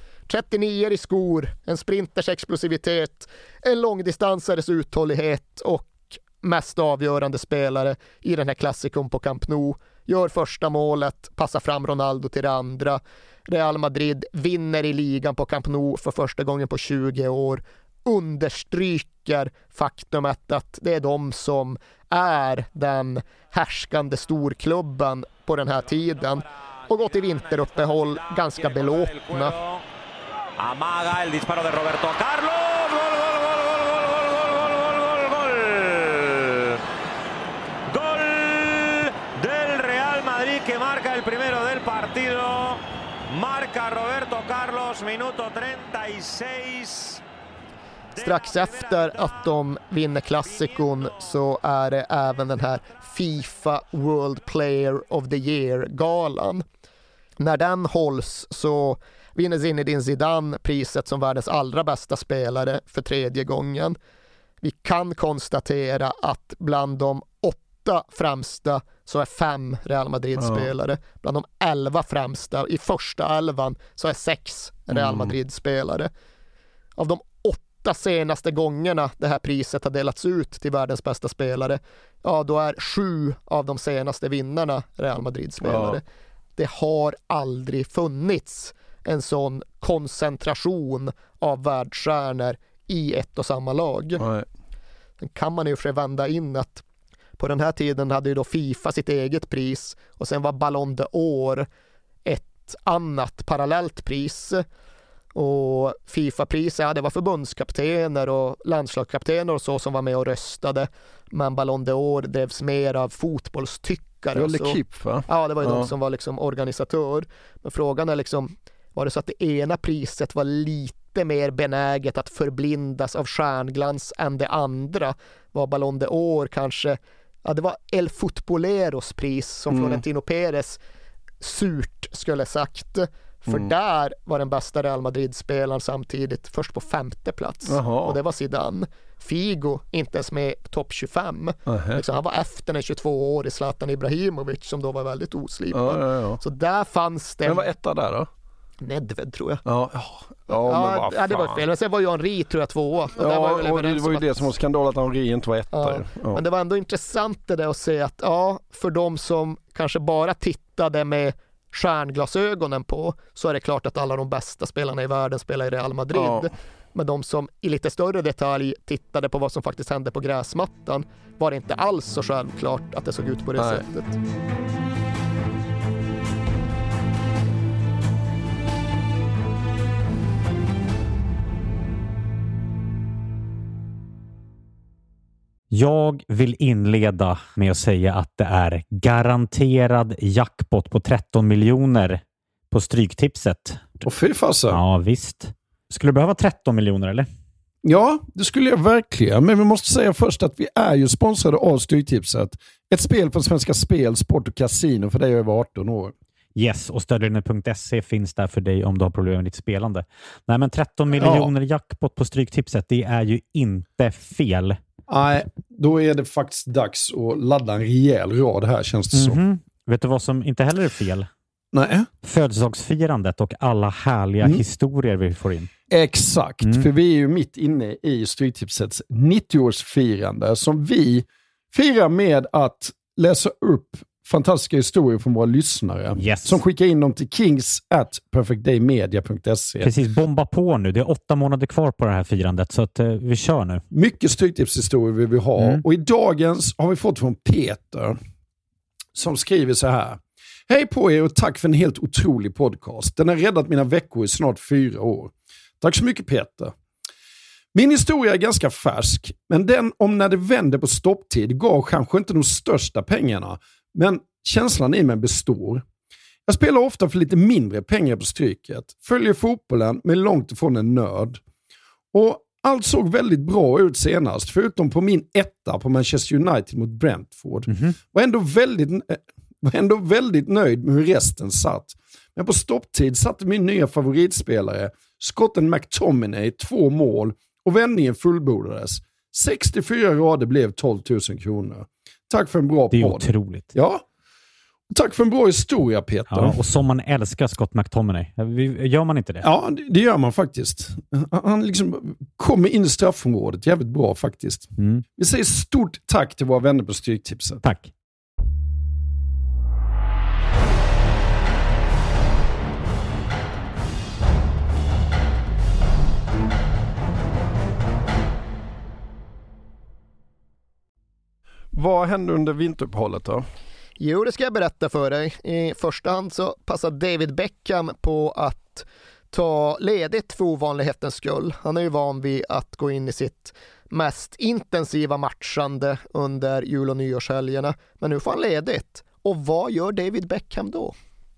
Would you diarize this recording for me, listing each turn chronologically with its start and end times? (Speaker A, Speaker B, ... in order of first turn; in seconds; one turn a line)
Speaker A: 0.3-29.6
Speaker B: 26.1-29.8
Speaker B: 30.6-36.8
Speaker B: 37.9-47.2
Speaker B: 48.1-49.5
Speaker A: 48.2-56.6
Speaker B: 50.4-51.3
Speaker A: 57.4-64.0
Speaker A: 64.6-76.1
Speaker C: 70.4-70.7
Speaker C: 74.9-75.3
Speaker A: 77.0-86.0
Speaker C: 85.6-86.0
Speaker A: 86.6-94.2
Speaker C: 94.2-94.5
Speaker A: 95.2-96.8
Speaker A: 97.4-101.7
Speaker A: 102.2-104.6
Speaker A: 105.3-130.8
Speaker C: 114.3-115.9
Speaker C: 129.7-130.0
Speaker A: 131.4-147.7
Speaker C: 137.7-138.2
Speaker C: 141.7-142.0
Speaker C: 145.7-146.4
Speaker C: 147.4-148.3
Speaker A: 148.8-149.6
Speaker C: 149.6-151.6
Speaker A: 150.5-154.5
Speaker C: 153.1-156.4
Speaker A: 155.7-174.2
Speaker C: 166.1-166.5
Speaker C: 173.6-173.8
Speaker D: 185.7-194.0
Speaker C: 194.0-194.8
Speaker D: 194.7-197.3
Speaker C: 197.8-206.1
Speaker D: 206.6-214.8
Speaker C: 211.2-211.5
Speaker C: 215.1-219.4
Speaker D: 219.1-221.3
Speaker C: 221.7-222.1
Speaker D: 222.2-225.7
Speaker C: 225.9-239.9
Speaker D: 226.6-226.9
Speaker D: 236.2-236.6
Speaker D: 239.8-243.8
Speaker C: 243.9-248.2
Speaker D: 245.6-245.8
Speaker C: 249.1-256.7
Speaker C: 257.7-265.8
Speaker C: 266.4-271.4
Speaker C: 272.1-294.0
Speaker D: 292.9-293.7
Speaker C: 294.9-296.6
Speaker D: 296.3-299.5
Speaker C: 299.4-307.6
Speaker D: 304.8-305.0
Speaker D: 307.6-307.9
Speaker C: 321.7-323.4
Speaker A: 324.0-340.9